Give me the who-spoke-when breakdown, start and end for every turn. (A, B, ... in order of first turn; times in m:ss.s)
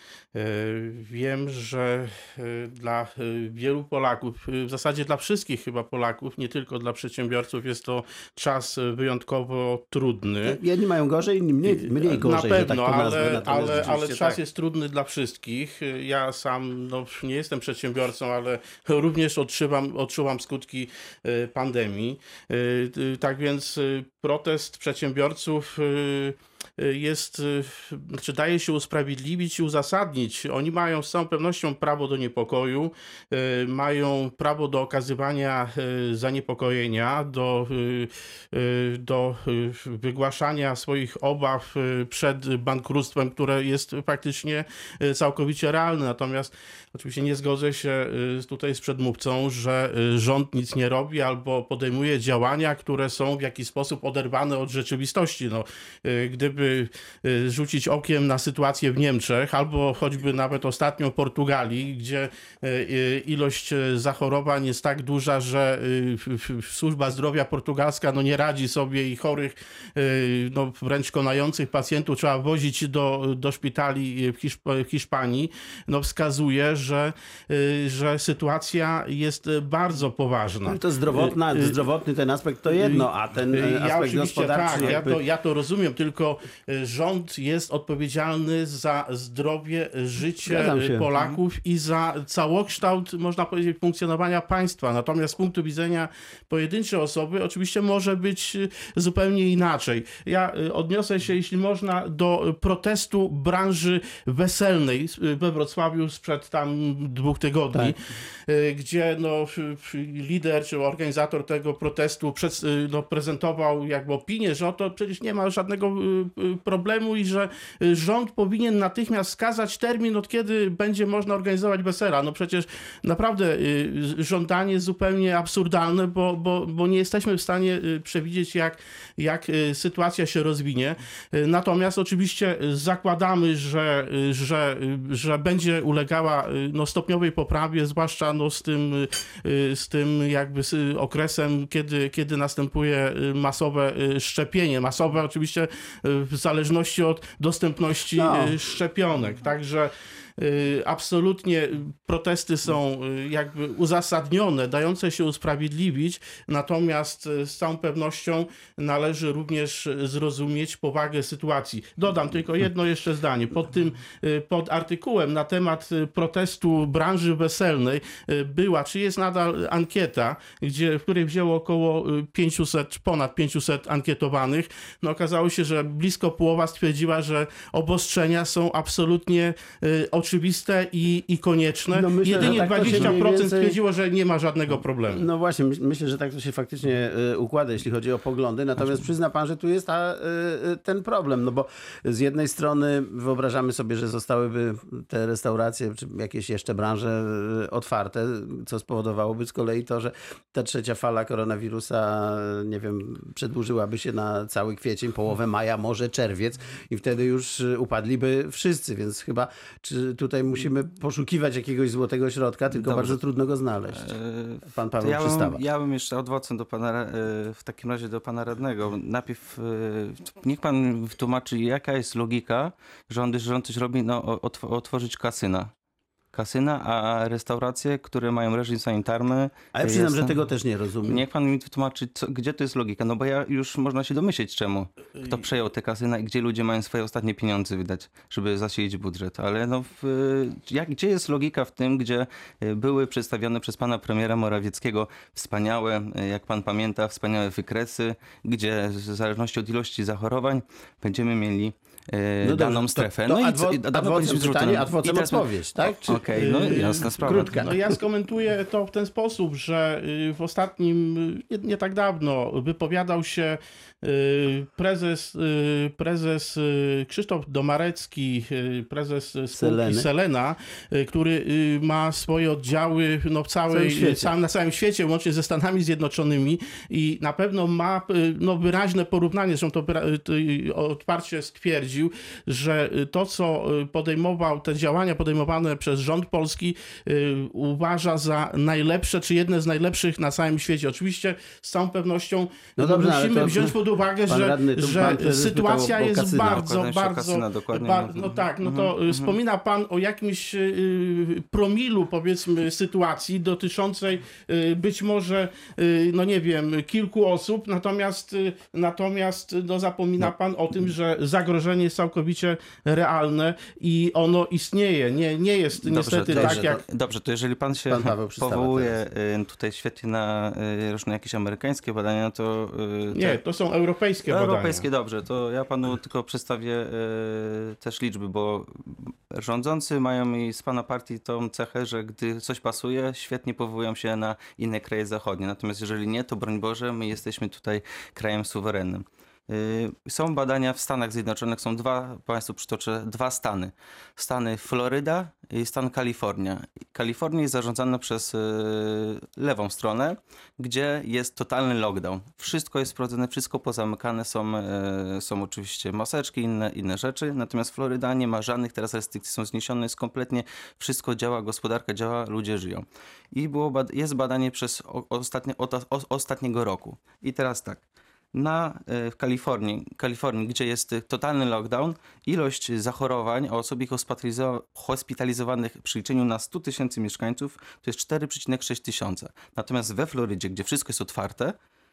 0:00.4-0:10.6 A
0:10.4-0:14.4 B
0:11.7-1:21.8 A
1:20.6-1:25.2 B
1:22.7-3:05.3 A
1:30.5-1:31.1 B
2:28.2-2:28.6 B
3:01.9-3:03.8 B
3:02.4-3:03.2 C
3:05.1-3:34.1 B
3:32.7-3:33.2 C
3:33.9-3:45.7 C
3:34.7-3:35.6 B
3:46.3-3:50.4 C
3:49.7-3:51.2 B
3:51.0-4:17.7 C
4:12.4-4:16.3 B
4:16.3-5:16.8 A
4:17.2-4:17.8 B
4:29.5-4:30.1 B
4:33.7-4:34.3 B
4:52.8-4:56.7 B
4:56.5-4:59.4 C
5:15.8-5:23.4 C
5:16.1-5:16.8 B
5:17.9-5:19.0 B
5:23.1-5:24.9 A
5:24.2-6:21.5 C